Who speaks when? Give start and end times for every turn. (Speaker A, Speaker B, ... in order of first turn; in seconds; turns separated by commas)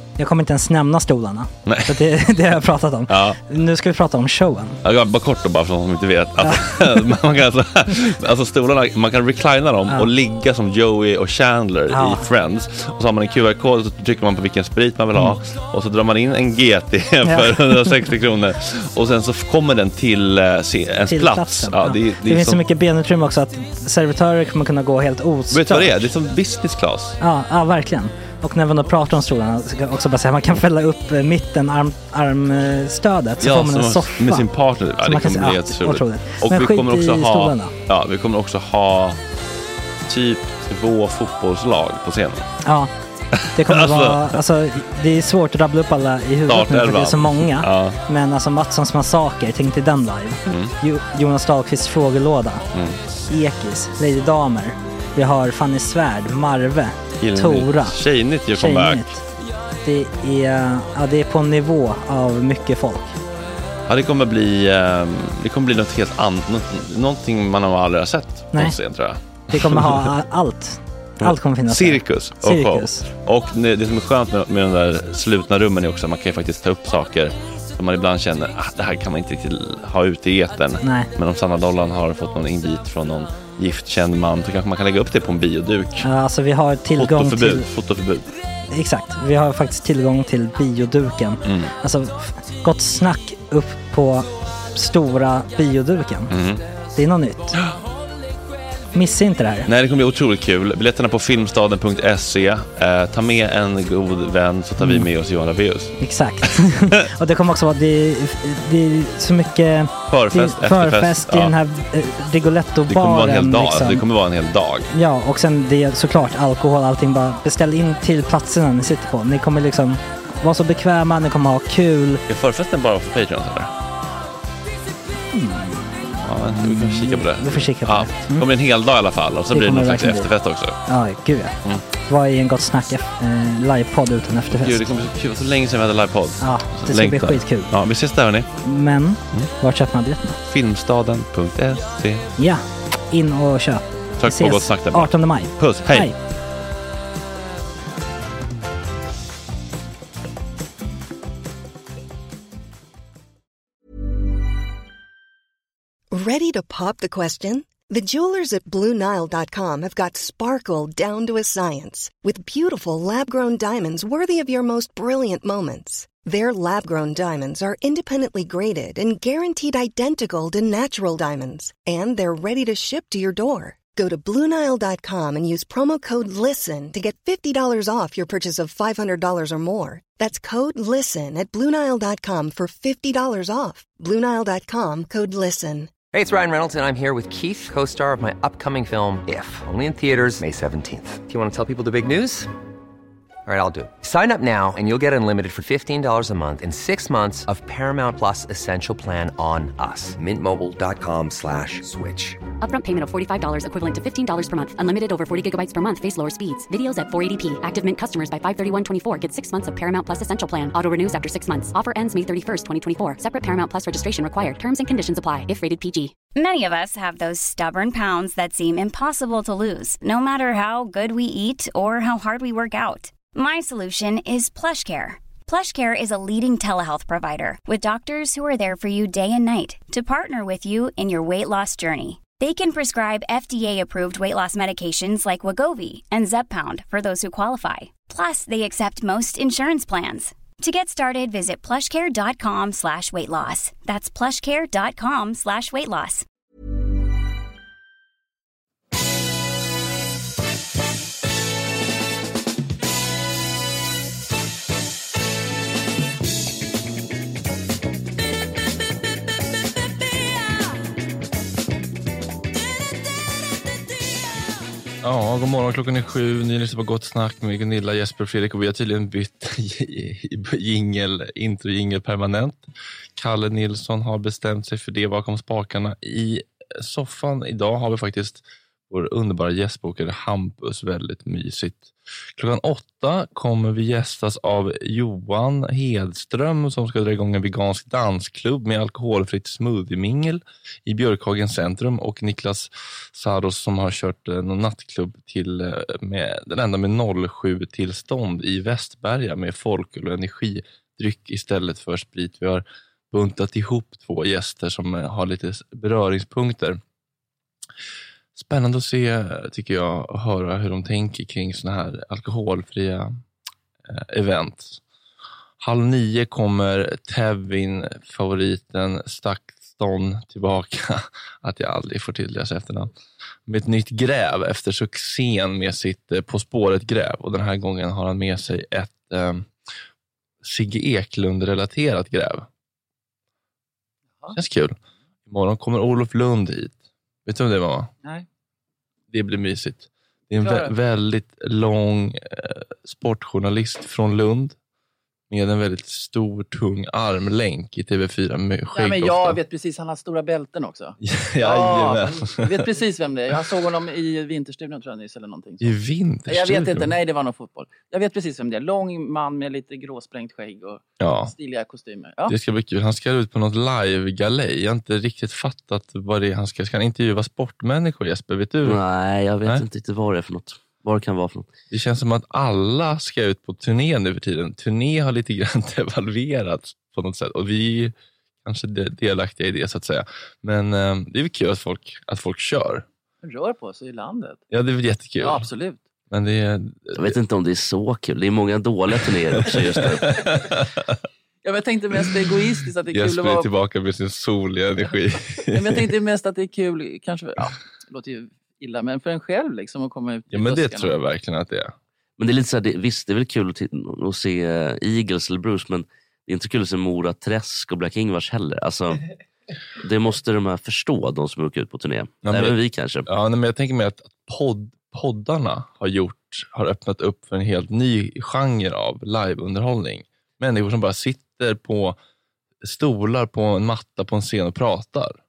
Speaker A: 0.2-4.8, Speaker B: 1.6-2.0, Speaker B: 3.1-3.4, Speaker B: 4.8-22.6, Speaker A: 6.4-7.0, Speaker A: 11.9-12.2, Speaker A: 17.2-18.0, Speaker A: 21.1-26.1, Speaker B: 25.5-27.2, Speaker A: 27.2-37.7, Speaker B: 33.4-39.2, Speaker B: 40.1-42.5, Speaker A: 42.6-42.9, Speaker B: 43.3-44.4, Speaker A: 43.5-52.6, Speaker B: 46.5-48.0, Speaker B: 50.5-50.7, Speaker B: 52.7-53.0, Speaker A: 53.3-58.0, Speaker B: 57.2-59.2, Speaker A: 58.5-59.2, Speaker A: 59.8-63.2, Speaker B: 63.9-70.1, Speaker A: 69.5-73.0, Speaker B: 71.2-86.1, Speaker A: 80.8-81.1, Speaker A: 86.0-87.7, Speaker B: 87.0-88.3, Speaker A: 88.7-96.3, Speaker B: 91.4-91.7, Speaker B: 96.3-96.6, Speaker A: 97.0-97.5, Speaker A: 98.9-99.7, Speaker B: 99.7-106.6, Speaker A: 104.8-105.1, Speaker A: 106.0-114.0, Speaker B: 110.1-111.5, Speaker B: 112.8-114.9, Speaker A: 114.9-122.2, Speaker B: 122.3-123.7, Speaker A: 125.3-128.5, Speaker B: 126.2-130.8, Speaker A: 129.5-130.3, Speaker A: 130.8-134.9, Speaker B: 134.5-138.5, Speaker A: 136.4-137.7, Speaker A: 138.6-140.4, Speaker B: 140.4-142.3, Speaker A: 142.4-146.2, Speaker B: 144.2-146.1, Speaker C: 156.1-186.1, Speaker D: 186.1-192.5, Speaker D: 193.4-202.4, Speaker E: 202.6-216.1, Speaker F: 216.3-246.2, Speaker G: 265.0-306.8, Speaker G: 308.3-313.2, Speaker G: 313.9-314.8, Speaker G: 315.6-322.9, Speaker G: 323.5-329.5, Speaker G: 330.4-332.5, Speaker G: 334.3-337.9, Speaker G: 339.1-344.6, Speaker H: 340.4-340.8, Speaker G: 345.3-349.4, Speaker H: 348.7-362.4, Speaker G: 351.0-352.6, Speaker G: 355.6-357.0, Speaker G: 361.0-361.3, Speaker G: 362.3-368.8, Speaker I: 368.6-371.5, Speaker G: 371.7-382.8, Speaker H: 383.2-384.4, Speaker G: 384.5-385.5, Speaker H: 385.2-385.8, Speaker G: 386.1-387.1, Speaker I: 387.0-390.2, Speaker G: 389.4-390.9, Speaker H: 391.4-393.5, Speaker G: 392.9-395.8, Speaker H: 395.5-401.0, Speaker G: 400.3-401.7, Speaker I: 402.2-409.0, Speaker I: 409.8-413.1, Speaker G: 412.2-422.0, Speaker G: 422.6-425.2